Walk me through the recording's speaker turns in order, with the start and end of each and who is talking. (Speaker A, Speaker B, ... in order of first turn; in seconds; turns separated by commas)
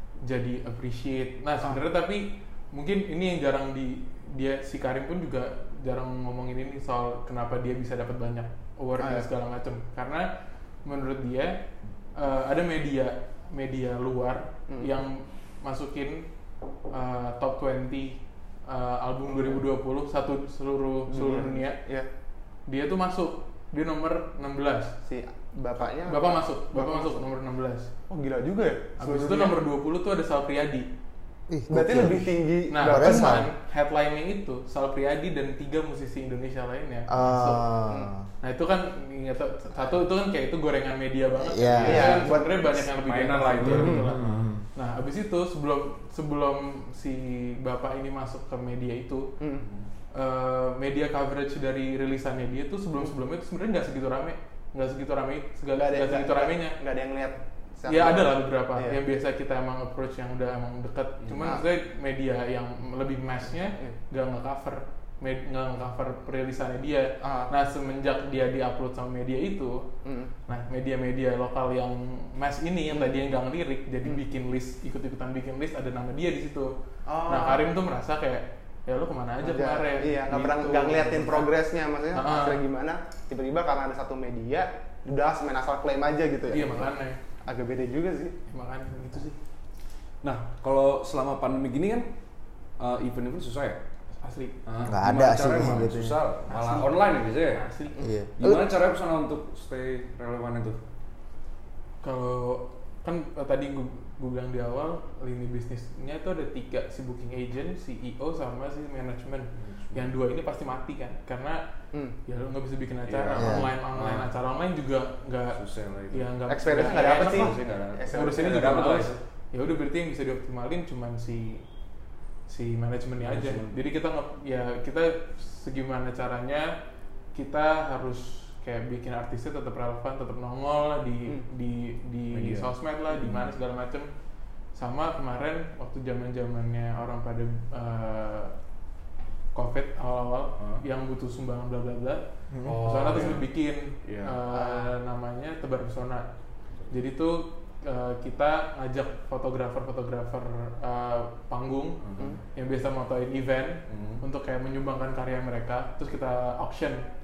Speaker A: 0.2-10.3, Speaker B: 9.0-9.3, Speaker A: 10.8-11.6, Speaker A: 12.2-16.3, Speaker B: 14.7-14.9, Speaker A: 16.9-21.8, Speaker B: 21.1-22.1, Speaker A: 22.7-24.9, Speaker B: 25.0-27.2, Speaker A: 26.0-27.9, Speaker B: 28.1-29.6, Speaker A: 29.0-30.9, Speaker C: 31.5-32.2, Speaker B: 31.7-33.5, Speaker A: 32.7-37.7, Speaker C: 32.8-33.5, Speaker C: 37.1-38.2, Speaker B: 37.9-38.1, Speaker A: 38.4-49.3, Speaker C: 41.4-42.3, Speaker B: 41.8-42.9, Speaker D: 43.0-44.2, Speaker C: 43.6-44.6, Speaker B: 49.4-49.6, Speaker D: 49.6-49.9, Speaker A: 50.1-56.8, Speaker B: 55.7-59.0, Speaker A: 57.9-69.8, Speaker B: 67.2-67.5, Speaker B: 70.0-70.3, Speaker A: 70.5-76.7, Speaker B: 77.1-77.6, Speaker A: 77.3-81.5, Speaker B: 79.4-86.9, Speaker A: 82.1-82.6, Speaker A: 86.5-87.2, Speaker B: 87.5-88.3, Speaker A: 88.5-89.4, Speaker D: 90.2-92.1, Speaker D: 92.8-93.8, Speaker A: 94.2-94.6, Speaker D: 94.7-97.6, Speaker C: 94.8-96.2, Speaker A: 96.5-98.0, Speaker C: 98.0-98.7, Speaker D: 98.4-100.8, Speaker A: 102.0-111.6, Speaker D: 109.6-110.1, Speaker A: 112.2-115.6, Speaker D: 113.1-114.3, Speaker C: 113.3-113.7, Speaker D: 115.5-119.2, Speaker A: 116.1-117.5, Speaker B: 116.5-118.7, Speaker A: 118.1-121.6, Speaker A: 122.5-126.7, Speaker D: 123.2-123.8, Speaker A: 127.3-134.1, Speaker D: 132.3-133.4, Speaker A: 134.7-138.5, Speaker A: 139.5-146.3, Speaker D: 140.6-140.8, Speaker C: 142.5-142.8, Speaker D: 142.6-143.5, Speaker D: 144.0-144.4, Speaker B: 144.6-144.8, Speaker A: 146.9-152.0, Speaker D: 152.0-152.3, Speaker A: 152.5-157.0, Speaker D: 153.9-154.2